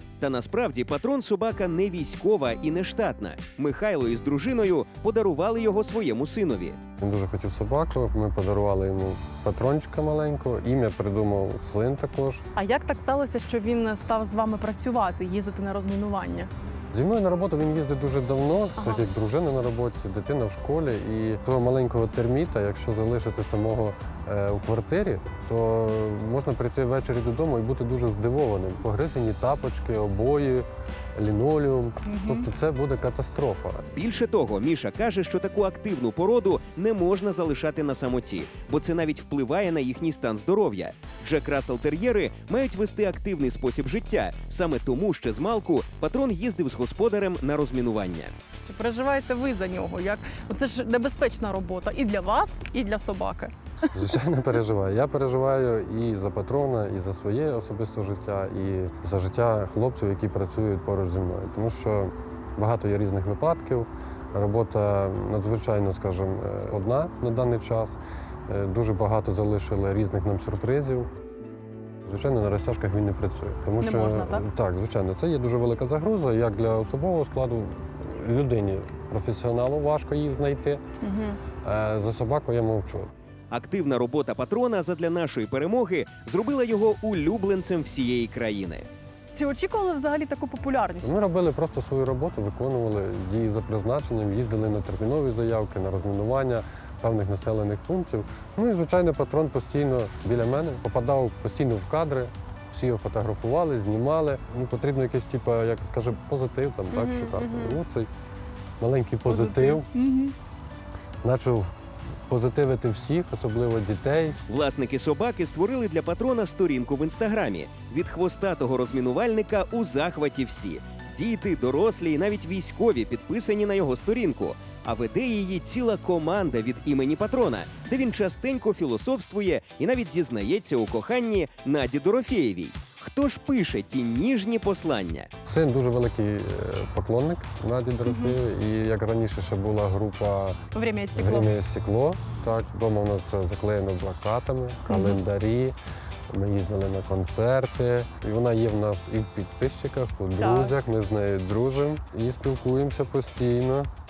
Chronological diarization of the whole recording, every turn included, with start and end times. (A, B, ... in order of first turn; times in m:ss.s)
0:00.2-0:06.8 A
0:07.0-0:12.4 B
0:12.6-0:16.5 C
0:16.9-0:33.8 B
0:18.8-0:19.1 C
0:32.1-0:32.4 C
0:33.9-0:48.3 A
0:48.7-0:53.5 C
0:54.0-1:11.1 B
1:12.1-1:20.8 B
1:13.8-1:14.4 C
1:21.0-1:21.4 C
1:21.6-1:23.1 B
1:23.5-1:28.9 A
1:29.3-1:31.2 C
1:31.0-1:48.1 B
1:46.9-1:47.8 C
1:48.8-1:49.9 B
1:49.3-1:50.4 C
1:51.2-1:51.7 B
1:52.3-1:54.4 B
1:54.5-2:15.3 A
2:15.4-2:20.6 B
2:18.0-2:18.4 C
2:20.7-2:21.5 C
2:21.2-2:25.8 B
2:24.9-2:25.2 C
2:26.3-2:33.9 B
2:30.4-2:30.7 C